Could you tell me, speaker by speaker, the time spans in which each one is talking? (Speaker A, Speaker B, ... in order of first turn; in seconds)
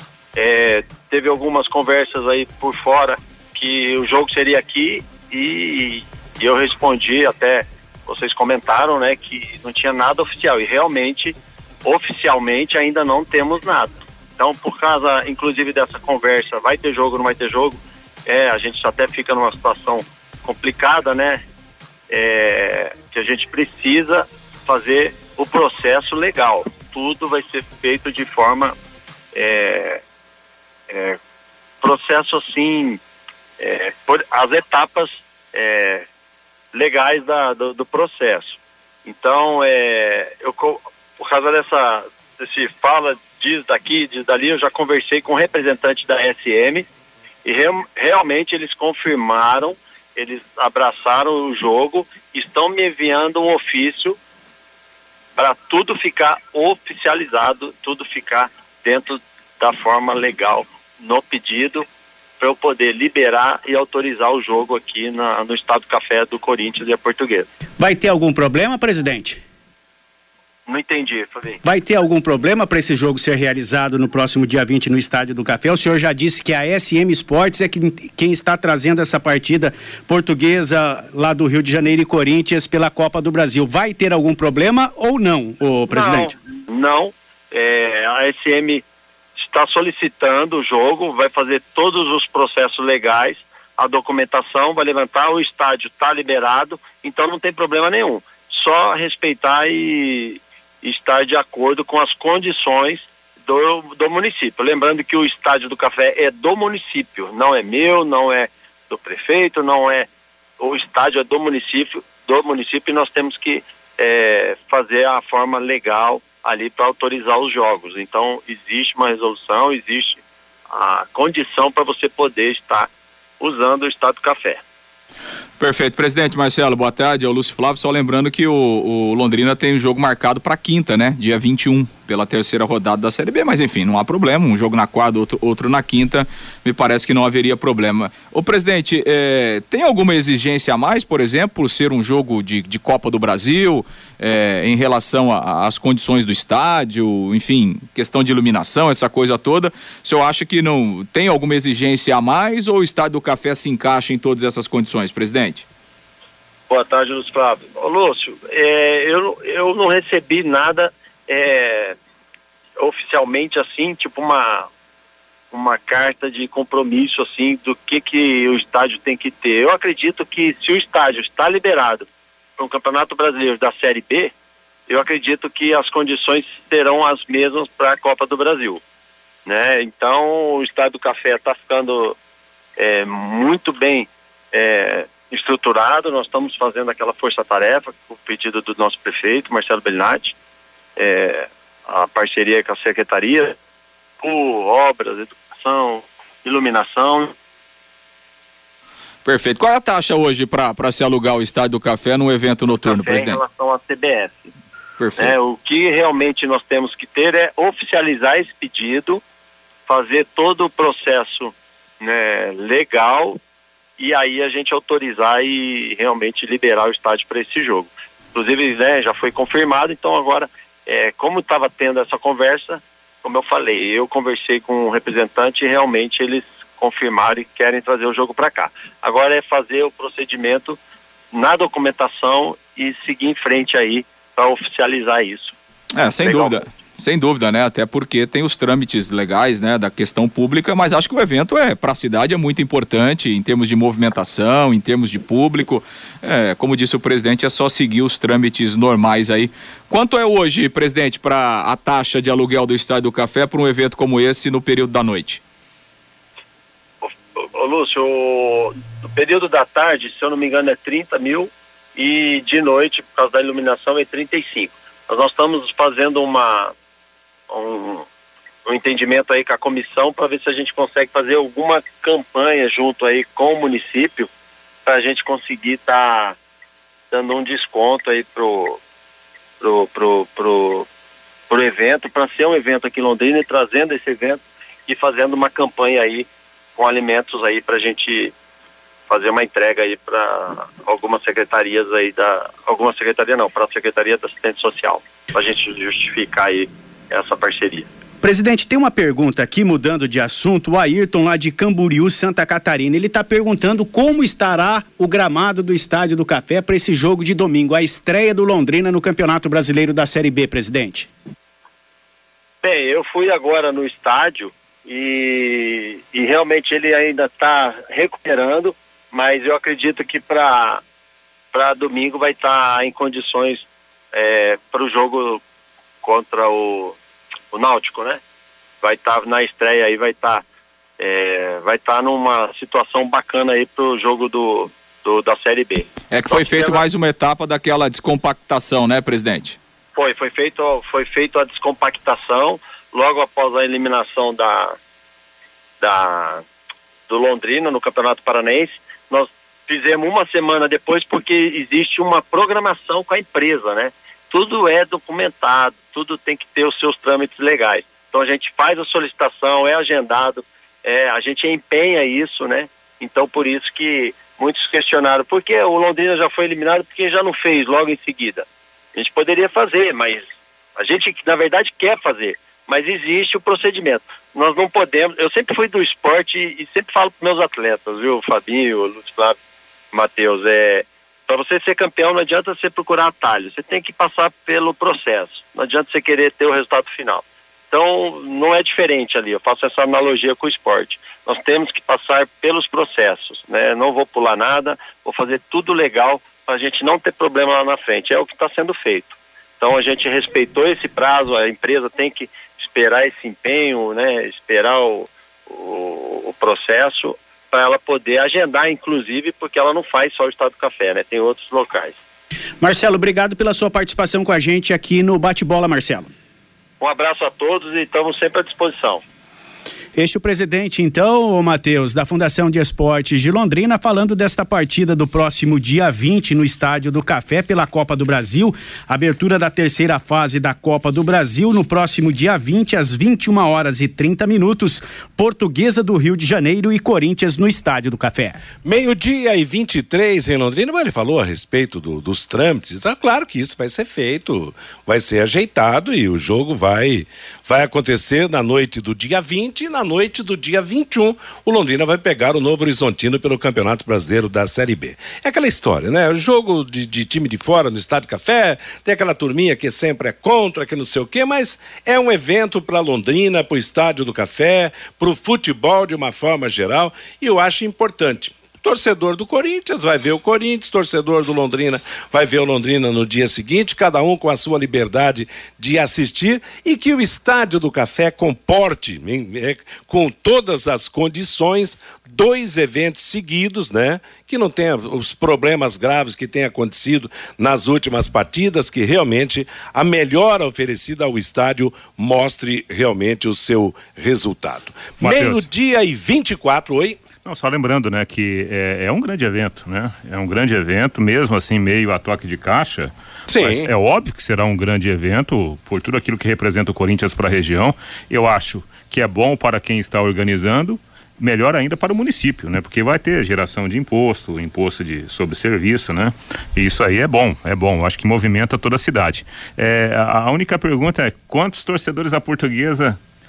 Speaker A: 0.3-21.4, 22.1-28.7, 29.3-30.0, 30.9-31.2, 31.8-33.0, 33.6-36.0, 36.7-46.8, 47.4-54.2, 55.4-61.9, 62.4-67.5, 70.7-71.6, 85.9-88.8, 89.4-110.1, 110.6-122.9, 123.4-124.6, 156.7-161.9, 162.8-164.7, 165.5-174.3, 174.9-178.8, 179.4-182.2, 182.8-190.3, 191.0-193.5, 194.2-197.3, 202.8-204.4, 205.2-209.2, 209.9-213.4, 214.0-230.8, 231.3-235.5, 236.2-236.5, 257.0-266.7, 267.5-268.0, 268.6-274.3, 274.9-276.4, 277.1-278.8, 279.6-280.9, 281.5-288.3, 289.1-297.9, 312.6-320.8, 321.5-325.4, 326.0-326.9, 327.5-328.2, 328.8-330.4, 331.0-336.8, 339.9-344.8, 345.8-346.4, 347.1-370.2, 370.8-379.4, 379.9-411.9, 416.8-419.0
Speaker B: 67.8-69.4, 71.6-86.3, 298.2-311.1, 412.6-416.1, 419.9-438.4
Speaker C: 125.6-155.7, 199.2-203.4, 205.0-205.3, 235.9-255.4, 336.1-339.6
Speaker D: 438.6-497.0, 503.3-503.7
Speaker E: 495.0-495.5, 497.2-523.0